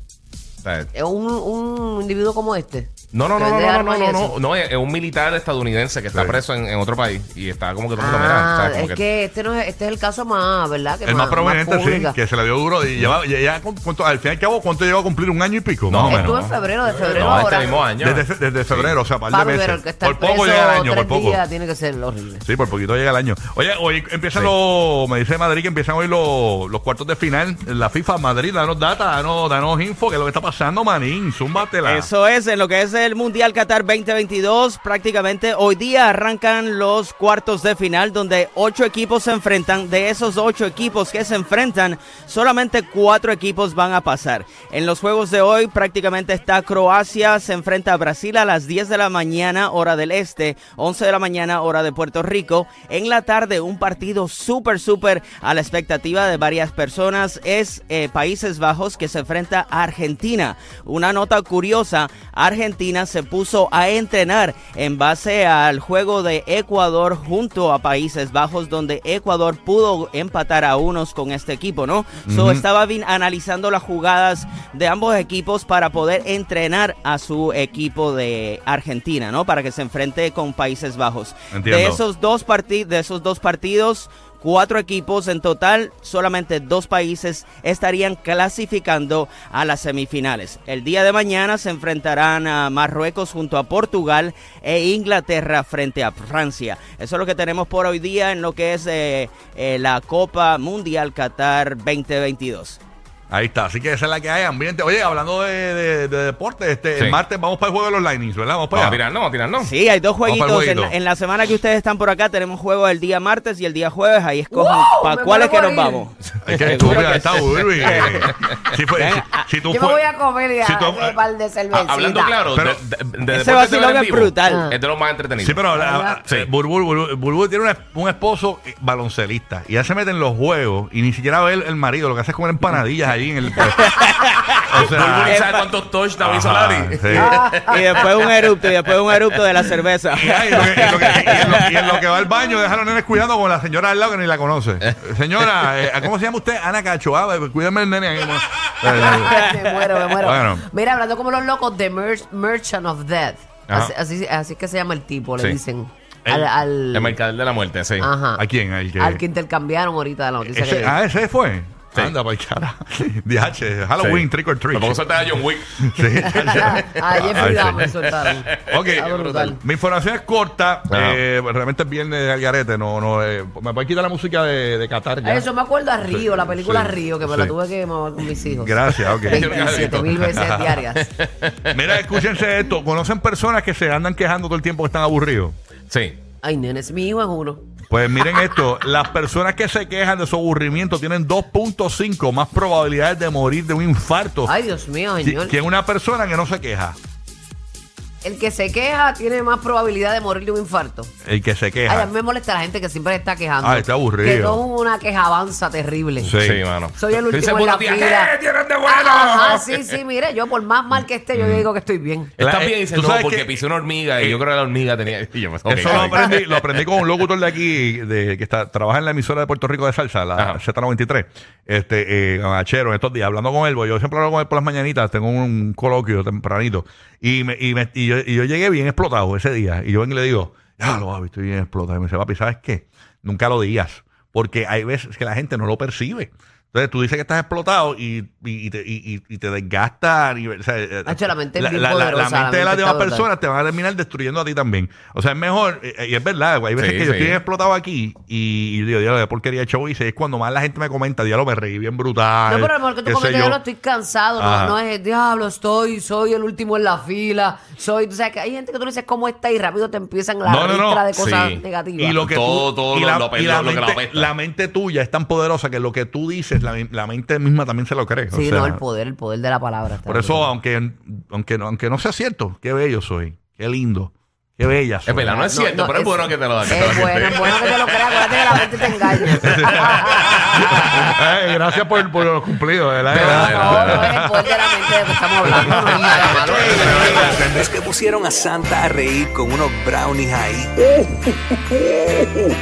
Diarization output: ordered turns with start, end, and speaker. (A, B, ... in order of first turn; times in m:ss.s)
0:00.6-0:00.9 A
0:00.9-0:04.3 B
0:03.1-0:09.0 A
0:06.1-0:06.4 C
0:08.0-0:12.2 B
0:11.0-0:16.4 C
0:15.9-0:18.9 A
0:16.0-0:17.8 B
0:17.2-0:21.4 C
0:19.3-0:22.5 B
0:22.4-0:32.1 C
0:31.8-1:42.8 D
1:12.2-1:12.6 C
1:21.5-1:22.0 C
1:43.3-1:49.0 C
1:48.7-1:49.7 A
1:49.6-1:58.3 D
1:50.2-1:50.9 C
1:54.5-1:56.0 B
1:56.4-1:58.6 A
1:56.4-2:00.0 C
1:58.9-1:59.4 D
1:59.7-2:02.4 B
2:00.6-2:01.2 C
2:01.7-2:05.6 A
2:02.5-2:02.8 C
2:03.3-2:04.7 D
2:04.5-2:04.8 B
2:05.4-2:14.0 C
2:05.7-2:06.2 B
2:13.7-2:14.6 D
2:14.6-2:15.4 C
2:14.7-2:19.4 A
2:15.2-2:15.7 D
2:16.2-2:17.5 C
2:17.2-2:21.8 D
2:17.2-2:17.7 B
2:20.2-2:29.5 C
2:25.4-2:25.7 A
2:28.8-2:37.2 B
2:30.2-2:30.6 C
2:33.7-2:33.9 A
2:36.9-2:38.1 A
2:38.0-2:38.4 B
2:38.4-2:39.2 C
2:39.0-2:41.0 B
2:40.4-2:45.2 C
2:44.0-2:49.6 A
2:45.8-2:55.4 C
2:46.4-2:49.6 B
2:50.9-2:51.2 A
2:55.2-3:01.1 B
2:56.1-2:57.5 C
2:58.6-3:00.8 C
2:59.2-3:00.4 A
3:01.0-3:02.4 A
3:01.7-3:05.6 C
3:05.9-3:06.2 A
3:06.4-3:07.6 B
3:07.9-3:14.5 C
3:14.4-3:15.6 B
3:15.2-3:17.0 C
3:18.2-3:21.1 B
3:21.2-3:22.1 C
3:21.8-3:26.3 B
3:23.6-3:24.6 C
3:26.2-3:26.6 C
3:26.4-3:30.0 A
3:27.0-3:28.3 B
3:28.8-3:32.3 B
3:31.3-3:31.7 C
3:32.4-3:37.0 A
3:32.4-3:33.6 C
3:35.6-4:13.6 C
3:35.9-3:36.3 B
3:40.4-3:40.6 A
4:01.0-4:03.3 B
4:06.8-4:07.4 A
4:12.5-4:22.3 B
4:14.4-4:14.8 C
4:20.4-4:21.1 C
4:21.1-4:21.6 A
4:22.0-4:28.8 C
4:22.3-4:24.3 A
4:28.3-4:30.5 B
4:30.0-4:35.3 C
4:35.0-4:38.6 A
4:35.2-4:41.2 B
4:39.3-4:44.3 C
4:43.1-4:44.2 A
4:43.1-4:47.4 B
4:45.4-4:47.6 C
4:46.3-4:51.1 E